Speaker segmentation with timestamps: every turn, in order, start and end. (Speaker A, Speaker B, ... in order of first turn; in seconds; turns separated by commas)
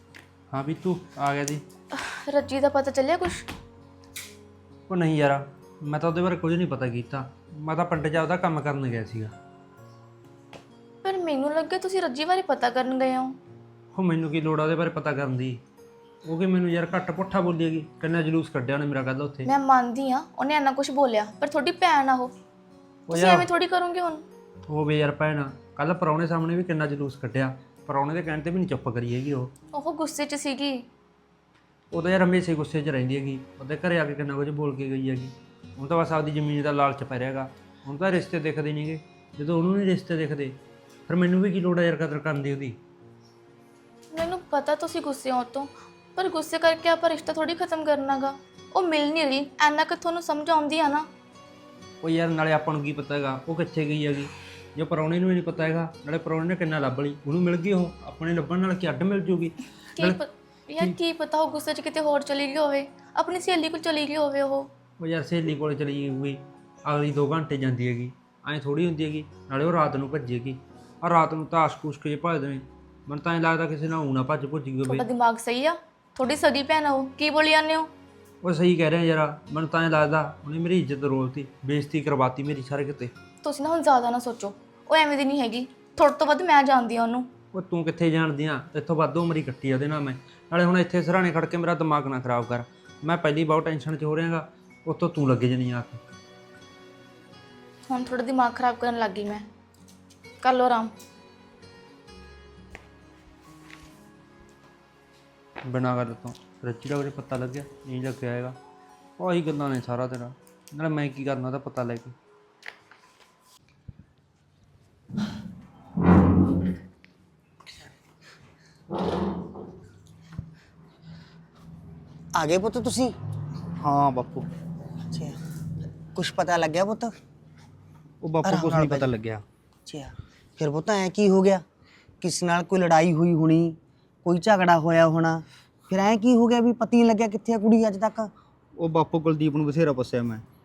Speaker A: 0.5-1.6, Speaker B: 1.9-3.5, Speaker A: 4.9-9.3, Speaker B: 11.0-13.4, Speaker A: 13.9-15.6, Speaker A: 16.2-19.5, Speaker B: 19.4-22.3, Speaker A: 23.1-23.5, Speaker B: 23.1-24.2, Speaker A: 24.6-29.5, Speaker B: 29.7-30.9, Speaker A: 31.9-40.5, Speaker A: 41.1-42.8, Speaker B: 44.1-51.1, Speaker A: 52.0-60.2, Speaker B: 60.0-64.7, Speaker A: 65.0-75.0, Speaker B: 74.8-77.9, Speaker A: 78.4-83.1, Speaker B: 83.4-87.3, Speaker A: 87.5-96.0, Speaker B: 97.9-99.5, Speaker B: 100.4-100.9, Speaker A: 105.6-108.6, Speaker A: 109.2-112.1, Speaker C: 122.3-123.1, Speaker D: 123.8-124.5, Speaker C: 125.1-125.4, Speaker C: 126.1-127.1, Speaker D: 128.2-129.4, Speaker C: 128.4-129.1, Speaker C: 129.8-131.6, Speaker C: 132.2-138.3, Speaker D: 138.8-140.4